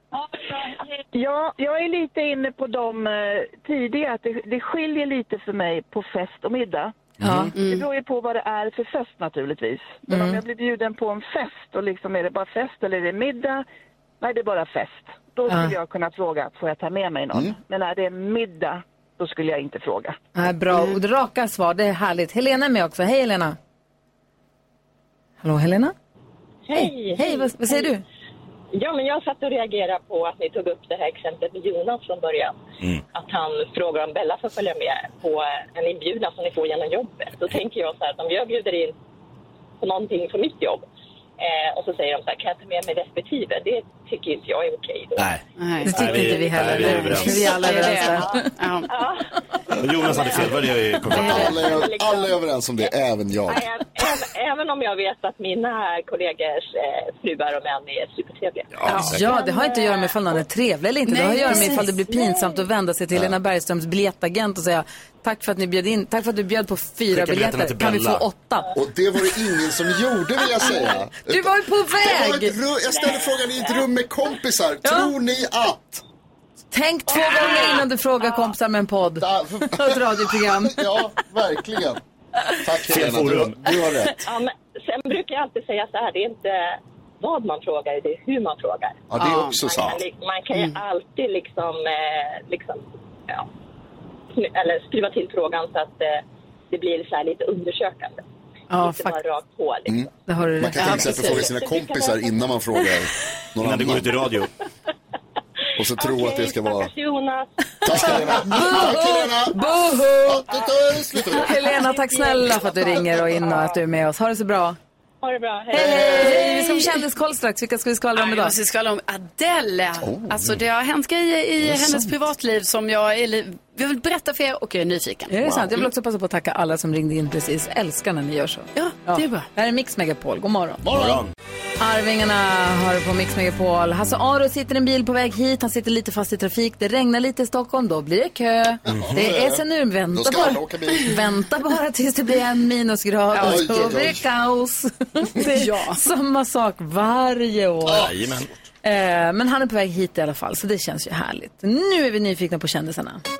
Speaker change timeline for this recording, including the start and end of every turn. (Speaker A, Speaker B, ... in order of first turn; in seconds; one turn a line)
Speaker A: 1.1-6.9
Speaker B: 7.2-7.5
Speaker C: 7.2-7.5
Speaker D: 7.6-7.8
Speaker A: 7.6-13.6
Speaker B: 10.1-10.4
Speaker A: 14.2-20.2
Speaker B: 15.5-15.7
Speaker B: 20.3-23.6
Speaker B: 25.4-25.9
Speaker E: 26.7-27.9
Speaker B: 26.7-28.0
Speaker E: 28.8-32.6
Speaker E: 33.1-38.9
Speaker E: 39.8-40.9
Speaker E: 41.4-45.4
Speaker C: 45.2-47.6
Speaker D: 45.6-48.9
Speaker B: 45.8-48.5
Speaker E: 47.0-50.5
Speaker C: 49.8-51.7
Speaker E: 51.1-52.9
Speaker F: 51.1-53.6
Speaker D: 51.2-51.5
Speaker E: 53.5-60.4
Speaker C: 58.7-59.3
Speaker B: 58.9-68.7
Speaker D: 61.1-61.9
Speaker E: 61.4-62.6
Speaker C: 67.1-68.2
Speaker F: 68.7-76.0
Speaker B: 70.6-72.5
Speaker E: 72.9-73.9
Speaker B: 74.8-75.1
Speaker B: 76.7-81.0
Speaker E: 77.1-78.5
Speaker F: 79.2-82.0
Speaker F: 82.6-84.2
Speaker C: 82.8-83.8
Speaker E: 84.2-93.5
Speaker F: 89.1-90.0
Speaker D: 89.2-89.6
Speaker E: 94.3-100.1
Speaker B: 98.7-99.2
Speaker F: 99.9-104.3
Speaker B: 100.3-101.4
Speaker D: 100.8-101.3
Speaker E: 100.9-102.4
Speaker C: 103.6-104.5
Speaker F: 105.8-106.9
Speaker E: 105.8-108.5
Speaker F: 107.8-109.6
Speaker B: 108.1-110.5
Speaker F: 110.2-111.5
Speaker B: 111.3-114.8
Speaker E: 111.8-113.8
Speaker E: 115.2-116.8
Speaker B: 115.7-118.5
Speaker F: 115.7-116.4
Speaker D: 116.2-116.9
Speaker D: 118.1-125.4
Speaker F: 120.0-120.6
Speaker F: 121.6-122.1
Speaker B: 125.3-130.8
Speaker D: 128.7-129.5
Speaker F: 130.8-131.2
Speaker C: 130.9-131.3
Speaker B: 131.8-148.1
Speaker F: 138.8-141.2
Speaker C: 138.9-139.1
Speaker D: 143.3-143.7
Speaker F: 143.3-144.2
Speaker D: 145.5-146.0
Speaker F: 147.8-148.1
Speaker C: 147.8-148.5
Speaker B: 148.8-153.2